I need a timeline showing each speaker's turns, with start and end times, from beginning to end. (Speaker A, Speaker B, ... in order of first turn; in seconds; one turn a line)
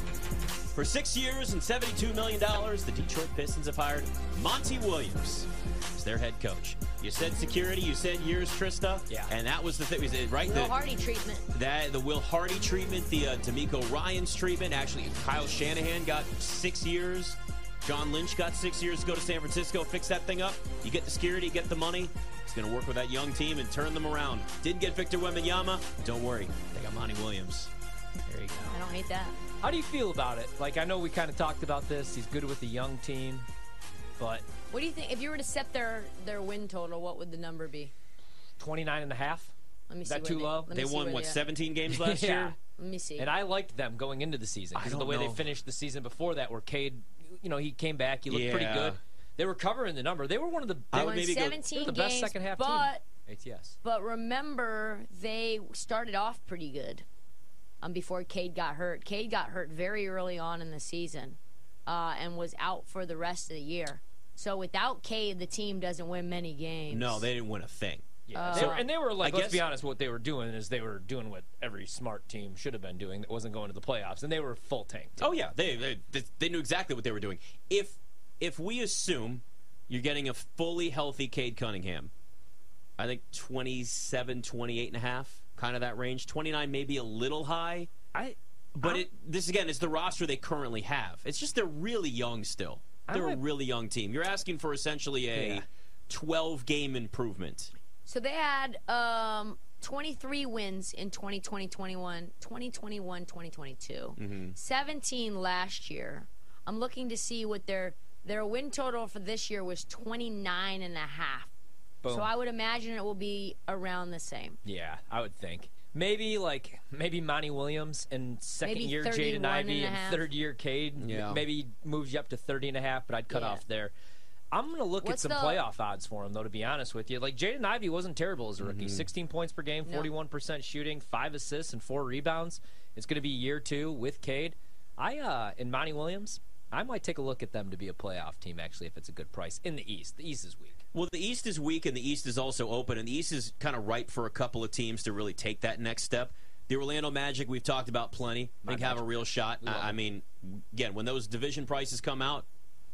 Speaker A: 0.7-10.8
Speaker B: 10.4-11.5
Speaker A: 11.5-27.7
Speaker A: 28.3-28.8
Speaker B: 28.7-29.4
Speaker C: 29.6-33.5
Speaker C: 34.2-34.4
Speaker B: 34.7-37.9
Speaker C: 38.6-39.5
Speaker B: 39.9-41.4
Speaker C: 40.0-40.7
Speaker A: 40.7-42.5
Speaker C: 41.9-42.5
Speaker B: 42.8-43.3
Speaker C: 43.2-53.8
Speaker A: 44.7-45.5
Speaker A: 48.3-49.0
Speaker A: 50.9-51.7
Speaker B: 50.9-53.0
Speaker B: 53.8-57.0
Speaker B: 57.8-67.3
Speaker A: 66.9-69.6
Speaker C: 68.3-75.3
Speaker B: 68.3-68.8
Speaker A: 75.2-82.1
Speaker A: 83.0-87.9
Speaker A: 88.7-97.7
Speaker B: 88.8-89.1
Speaker C: 93.1-93.4
Speaker C: 95.3-95.6
Speaker B: 98.0-111.5
Speaker A: 104.2-104.5
Speaker C: 112.0-112.3
Speaker B: 112.1-114.6
Speaker C: 114.6-123.9
Speaker B: 118.6-120.3
Speaker A: 121.0-121.4
Speaker B: 123.3-123.6
Speaker C: 124.5-140.8
Speaker B: 125.0-125.6
Speaker A: 128.6-129.1
Speaker B: 129.8-130.1
Speaker A: 140.9-152.4
Speaker C: 148.6-150.0